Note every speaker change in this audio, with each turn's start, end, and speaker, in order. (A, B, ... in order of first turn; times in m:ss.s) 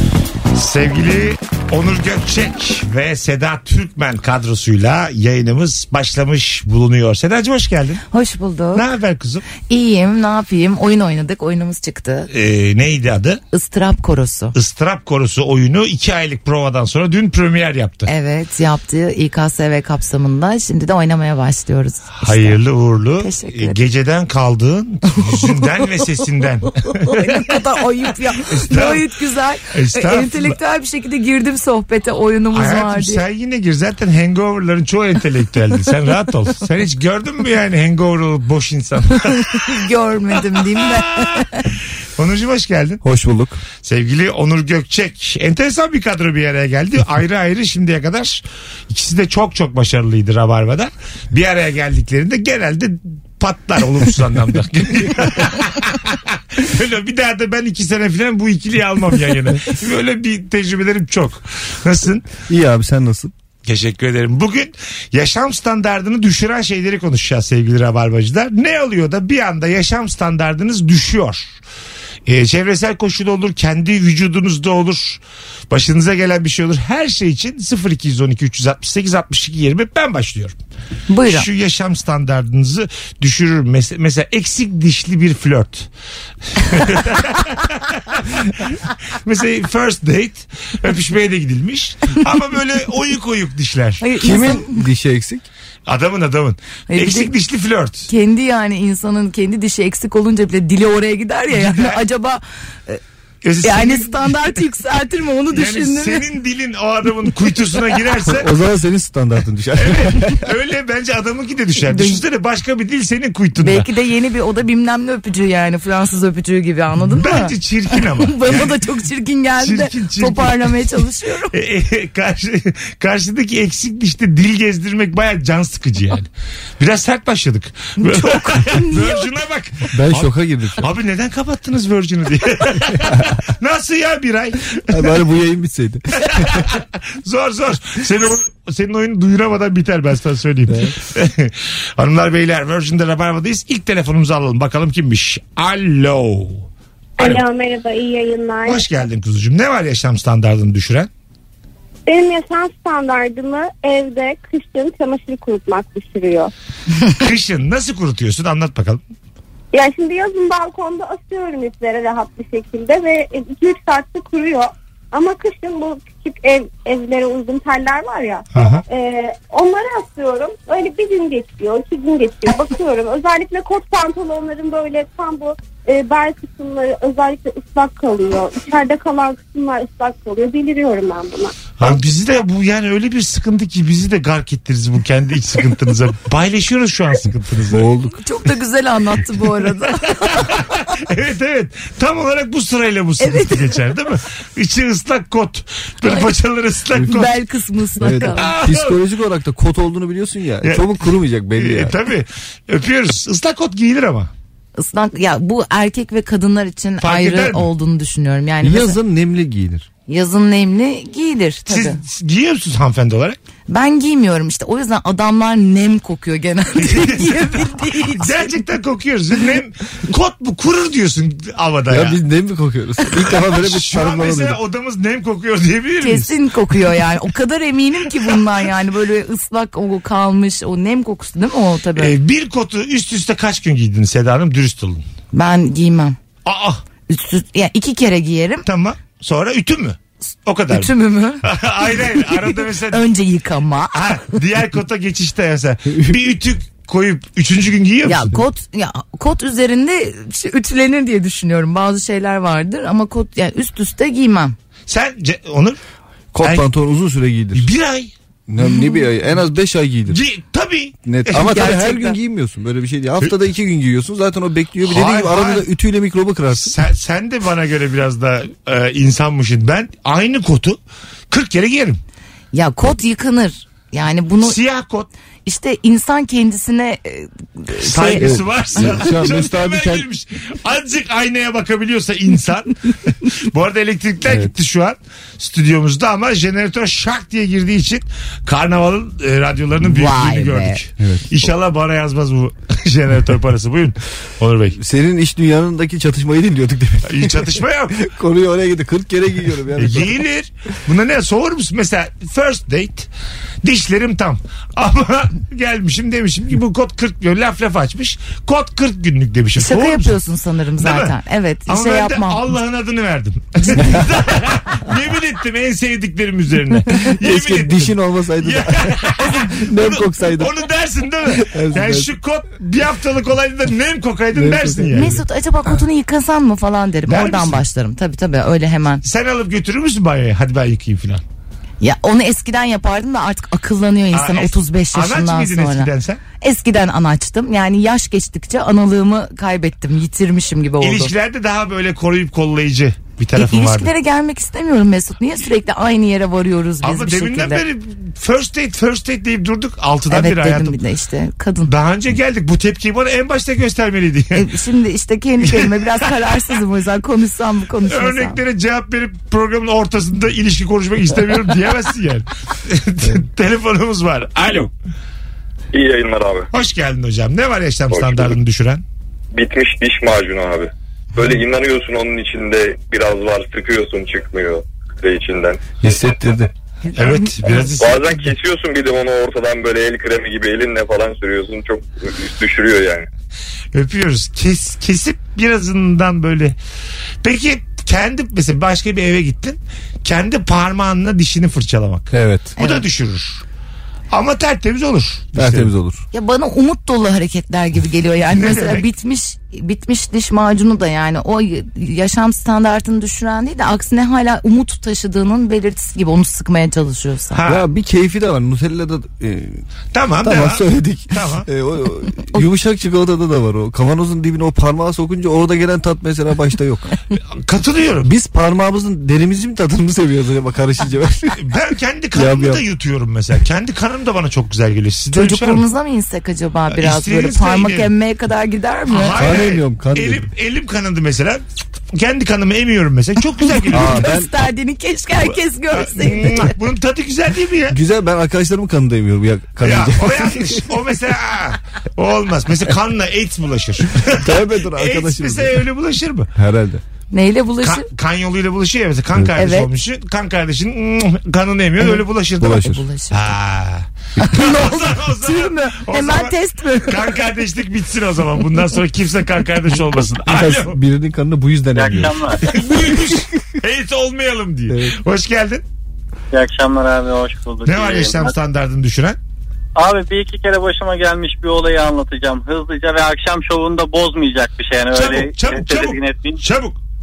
0:00.5-0:08.0 A
0:08.1-0:08.8 B
0:08.7-0:09.5 A
0:09.6-0:12.3 B
0:12.3-0:13.4 A
0:13.5-0:14.5 B
0:14.5-0:18.1 A
0:18.1-0:22.6 B
0:22.2-0:27.4 A
0:23.2-0:23.8 B
0:25.1-0:25.9 B
0:26.7-0:33.2 B
0:28.5-0:29.0 A
0:29.7-0:30.6 A
0:32.5-0:39.8 A
0:39.3-0:41.7 B
0:40.8-0:41.3 A
0:42.2-0:43.0 A
0:43.0-0:43.6 C
0:43.8-1:02.3 A
1:02.4-1:03.3 C
1:03.6-1:11.5 A
1:12.2-1:20.6 A
1:21.1-1:21.5 B
1:21.3-1:25.9 A
1:26.6-1:34.0 A
1:34.0-1:34.8 B
1:34.2-1:35.4 C
1:35.8-1:38.1 A
1:36.9-1:37.3 B
1:38.1-1:43.0 B
1:41.5-1:42.0 A
1:43.4-1:44.4 A
1:43.6-1:46.2 B
1:45.5-1:48.5 A
1:48.2-1:50.4 C
1:49.8-1:53.9 A
1:51.9-1:52.2 B
1:53.6-2:01.5 B
1:57.0-1:58.8 A
1:59.6-2:00.7 A
2:01.5-2:15.1 A
2:08.0-2:09.3 B
2:09.9-2:10.9 C
2:14.9-2:16.6 C
2:16.2-2:26.7 A
2:20.7-2:20.9 C
2:27.2-2:28.8 D
2:27.2-2:27.4 A
2:28.6-2:31.1 A
2:32.0-2:36.5 D
2:37.1-2:39.0 A
2:39.7-3:01.6 D
2:48.5-2:48.8 A
3:01.8-3:07.9 A
3:07.7-3:08.1 C
3:08.1-3:10.8 B
3:10.3-3:17.3 A
3:13.2-3:13.8 B
3:17.0-3:18.5 B
3:18.0-3:22.0 C
3:18.2-3:19.0 A
3:20.6-3:20.9 A
3:21.6-3:24.3 A
3:24.8-3:29.0 B
3:27.0-3:27.7 A
3:28.6-3:29.9 C
3:30.1-3:32.0 B
3:31.7-3:33.4 A
3:33.7-3:38.6 B
3:36.8-3:42.2 A
3:41.9-3:44.6 C
3:43.5-3:46.3 A
3:46.0-3:52.1 B
3:52.0-3:55.0 A
3:55.3-3:56.2 B
3:56.4-3:56.8 A
3:57.1-3:58.6 B
3:58.6-4:00.9 A
4:00.7-4:01.4 B
4:01.4-4:03.0 A
4:02.2-4:04.0 B
4:03.9-4:08.4 A
4:08.0-4:14.5 B
4:14.9-4:15.8 A
4:16.3-4:17.7 C
4:16.4-4:16.7 A
4:17.5-4:18.1 A
4:18.5-4:20.2 C
4:20.1-4:21.9 A
4:21.0-4:26.8 C
4:21.5-4:22.1 B
4:24.8-4:25.6 A
4:26.5-4:30.8 A
4:31.3-4:32.0 A
4:32.5-4:34.6 B
4:34.4-4:35.1 A
4:35.4-4:39.1 B
4:37.8-4:42.7 A
4:38.2-4:40.0 C
4:43.4-4:54.8 A
4:44.2-4:44.5 C
4:49.8-4:50.8 B
4:51.0-4:51.4 C
4:54.7-5:00.2 C
4:57.0-4:58.0 A
4:59.8-5:03.1 A
5:03.6-5:10.2 A
5:09.6-5:12.4 B
5:10.8-5:11.1 A
5:11.7-5:25.2 A
5:16.9-5:20.5 C
5:21.3-5:22.1 C
5:24.3-5:25.2 C
5:24.9-5:29.0 B
5:27.1-5:27.6 A
5:29.0-5:31.2 A
5:31.8-5:41.1 B
5:34.1-5:36.2 A
5:40.8-5:43.9 A
5:43.4-5:47.6 B
5:46.8-5:50.8 A
5:50.1-5:51.7 B
5:51.7-5:54.4 A
5:54.3-5:58.4 B
5:55.4-5:55.9 A
5:57.8-6:04.7 A
6:05.7-6:06.5 E
6:06.5-6:08.8 A
6:07.9-6:08.4 E
6:09.3-6:15.8 E
6:15.8-6:16.5 C
6:16.9-6:17.6 B
6:17.0-6:18.3 A
6:17.6-6:23.1 E
6:23.7-6:26.6 A
6:27.2-6:33.4 A
6:32.1-6:32.5 C
6:32.6-6:32.8 B
6:34.1-6:35.7 A
6:35.3-6:36.0 C
6:36.1-6:47.4 B
6:38.3-6:38.8 A
6:47.3-6:47.6 A
6:47.4-6:49.6 C
6:49.9-6:51.5 A
6:50.2-6:56.9 C
6:57.3-6:58.1 A
6:58.0-7:01.4 C
7:01.4-7:05.6 A
7:02.1-7:02.6 C
7:05.1-7:09.3 B
7:06.7-7:07.9 A
7:08.9-7:14.1 A
7:09.2-7:10.3 C
7:13.4-7:16.5 B
7:13.7-7:14.3 C
7:15.7-7:17.8 A
7:17.7-7:20.7 C
7:19.6-7:26.3 A
7:24.2-7:25.6 C
7:26.3-7:26.8 C
7:27.1-7:27.8 B
7:27.6-7:36.3 A
7:29.4-7:29.7 B
7:32.4-7:32.8 C
7:32.6-7:33.3 B
7:34.2-7:37.2 B
7:36.8-7:40.8 A
7:40.2-7:43.3 C
7:41.7-7:42.4 F
7:42.4-7:45.6 A
7:44.7-7:45.0 C
7:46.3-7:48.3 F
7:47.6-7:49.2 A
7:49.8-7:56.4 F
7:54.9-7:56.8 A